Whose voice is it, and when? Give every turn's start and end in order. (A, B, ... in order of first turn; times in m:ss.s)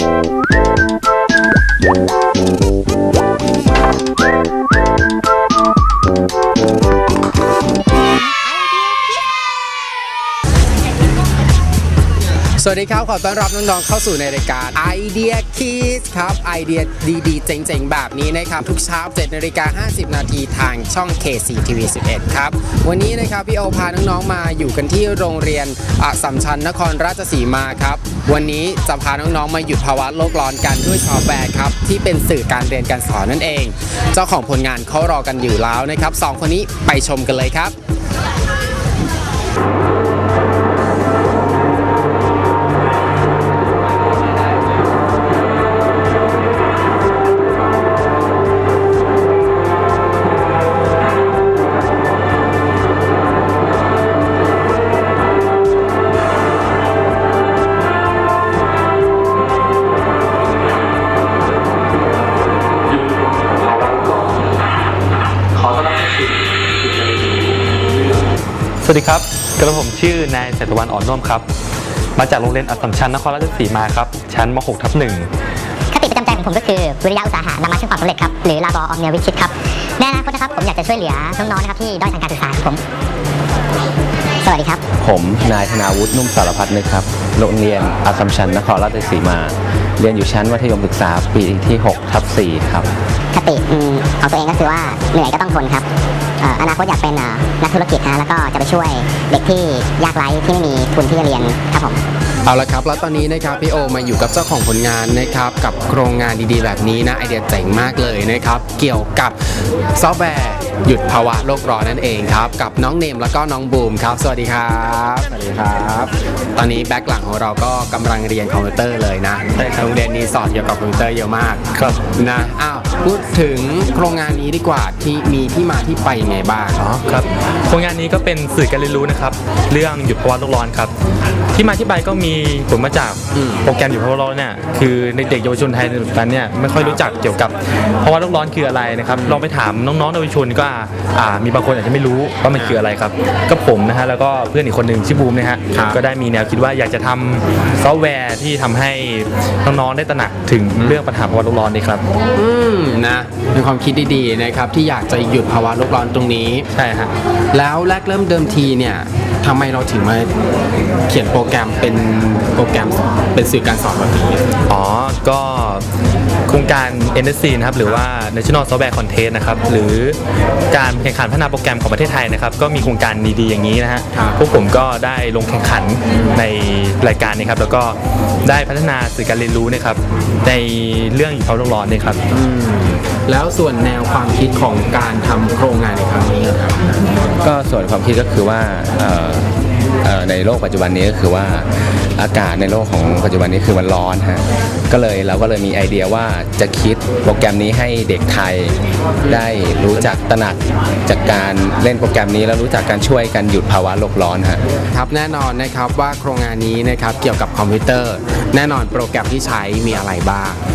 0:12.6-0:37.7 A
1:03.3-1:04.4 B
1:05.5-1:07.8 B
1:08.8-1:11.5 B
1:12.2-1:15.3 B
1:15.9-1:21.1 C
1:22.3-1:22.8 C
1:24.4-1:24.8 C
1:25.0-1:32.9 D
1:33.3-1:35.9 C
1:36.4-1:42.0 C
1:42.5-2:06.8 A
1:59.6-2:00.0 B
2:01.7-2:02.0 B
2:06.8-2:10.9 B
2:11.5-2:32.0 B
2:13.3-2:13.7 A
2:16.8-2:17.1 A
2:19.1-2:19.5 A
2:22.5-2:22.8 A
2:25.7-2:26.0 A
2:32.3-2:36.7 A
2:36.7-2:37.1 B
2:37.5-2:40.3 A
2:41.1-2:44.4 A
2:44.7-2:45.8 B
2:46.5-2:50.2 B
2:50.7-3:02.2 B
2:54.1-2:54.4 A
2:56.1-2:56.4 A
3:02.3-3:07.0 A
3:07.4-3:09.5 D
3:10.0-3:24.6 D
3:19.2-3:20.1 A
3:24.9-3:30.6 A